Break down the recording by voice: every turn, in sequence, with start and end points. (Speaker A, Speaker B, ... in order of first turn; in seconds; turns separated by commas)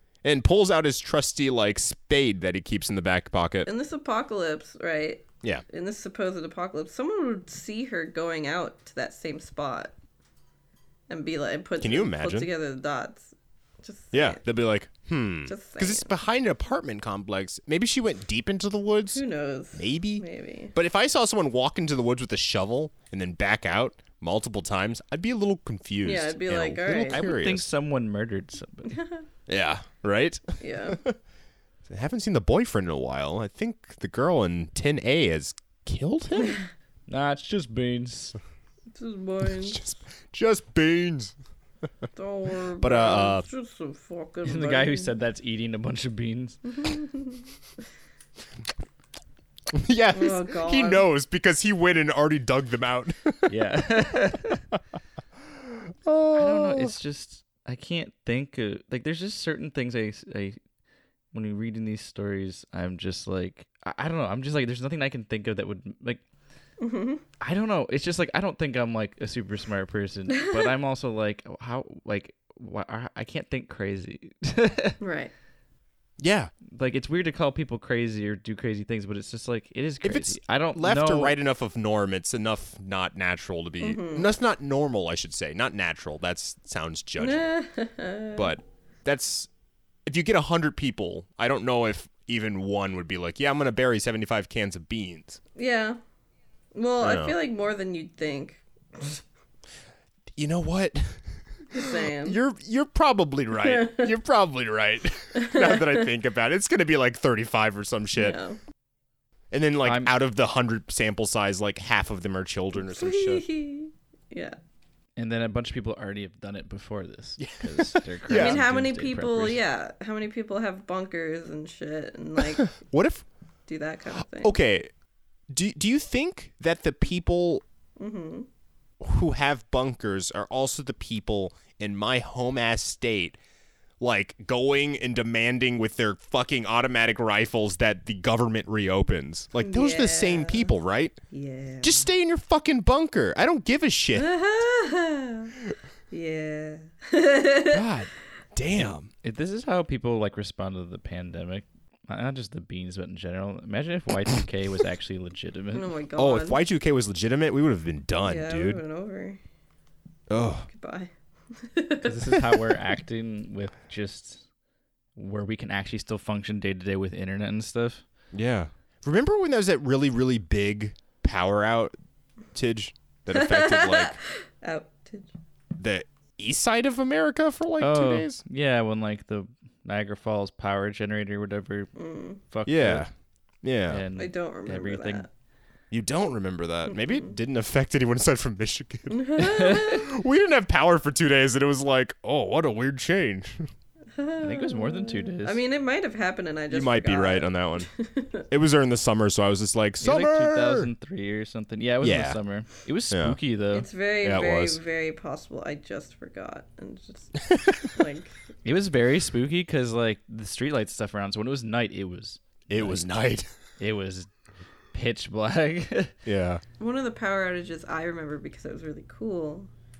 Speaker A: 0.2-3.7, Speaker B: 3.6-9.9, Speaker B: 11.1-14.4, Speaker A: 11.8-12.5, Speaker A: 14.1-19.2, Speaker B: 15.5-16.1, Speaker B: 19.1-20.7, Speaker A: 19.7-27.7, Speaker B: 26.0-27.3, Speaker C: 27.1-29.0, Speaker B: 28.9-29.2, Speaker A: 29.5-31.1, Speaker B: 30.6-31.0, Speaker A: 31.9-36.6, Speaker C: 37.1-38.4, Speaker B: 38.9-39.8, Speaker A: 39.6-41.3, Speaker B: 42.1-45.1, Speaker A: 42.8-43.5, Speaker C: 44.4-46.6, Speaker B: 46.6-47.5, Speaker A: 49.7-53.5, Speaker B: 50.1-51.0, Speaker C: 53.5-54.6, Speaker A: 56.0-56.9, Speaker C: 56.3-60.6, Speaker C: 61.3-66.2, Speaker B: 66.8-67.2, Speaker C: 67.4-75.0, Speaker B: 75.0-75.3, Speaker A: 76.2-76.5, Speaker C: 76.7-81.3, Speaker A: 80.0-87.5, Speaker B: 83.8-84.3, Speaker B: 87.2-88.5, Speaker A: 88.3-89.5, Speaker A: 90.0-95.4, Speaker B: 95.5-96.0, Speaker B: 96.7-99.2, Speaker A: 97.0-97.3, Speaker A: 100.3-101.2, Speaker B: 101.7-102.4, Speaker A: 101.8-108.4, Speaker B: 103.6-104.1, Speaker B: 105.3-106.1, Speaker B: 108.2-108.6, Speaker A: 109.5-113.4, Speaker C: 109.8-110.1, Speaker B: 112.8-114.6, Speaker C: 115.2-119.6, Speaker A: 117.4-118.6, Speaker B: 118.3-122.8, Speaker A: 122.8-123.2, Speaker B: 123.7-124.5, Speaker A: 124.4-124.9, Speaker A: 125.5-127.6, Speaker B: 128.0-128.4, Speaker A: 129.0-133.4, Speaker A: 134.0-141.2, Speaker B: 139.6-140.7, Speaker B: 141.3-142.1, Speaker A: 141.8-144.3, Speaker B: 144.1-145.5, Speaker B: 146.1-147.8, Speaker A: 147.7-149.1, Speaker C: 149.2-155.9, Speaker B: 155.7-156.6, Speaker A: 156.2-158.8, Speaker B: 158.2-159.4, Speaker A: 160.3-160.7, Speaker B: 160.7-162.4, Speaker C: 162.0-164.4, Speaker C: 165.2-168.0, Speaker A: 168.3-171.9, Speaker A: 172.5-174.2, Speaker B: 173.3-175.3, Speaker A: 175.8-178.4, Speaker C: 177.8-181.9, Speaker B: 181.9-182.4, Speaker C: 182.5-183.1, Speaker A: 182.7-183.1, Speaker A: 183.6-184.0, Speaker C: 183.9-185.2, Speaker B: 184.2-185.3, Speaker A: 185.9-193.7, Speaker B: 186.9-187.3, Speaker B: 189.1-190.1, Speaker C: 189.4-190.0, Speaker B: 194.1-198.4, Speaker C: 194.4-195.6, Speaker A: 196.7-197.9, Speaker A: 198.5-200.9, Speaker C: 200.0-203.9, Speaker A: 202.0-202.4, Speaker A: 203.1-203.4, Speaker B: 203.7-208.3, Speaker A: 204.2-204.8, Speaker A: 207.5-207.8, Speaker C: 208.6-213.1, Speaker A: 212.7-213.5, Speaker C: 213.8-214.3, Speaker C: 214.9-216.1, Speaker A: 216.2-216.6, Speaker B: 216.8-219.7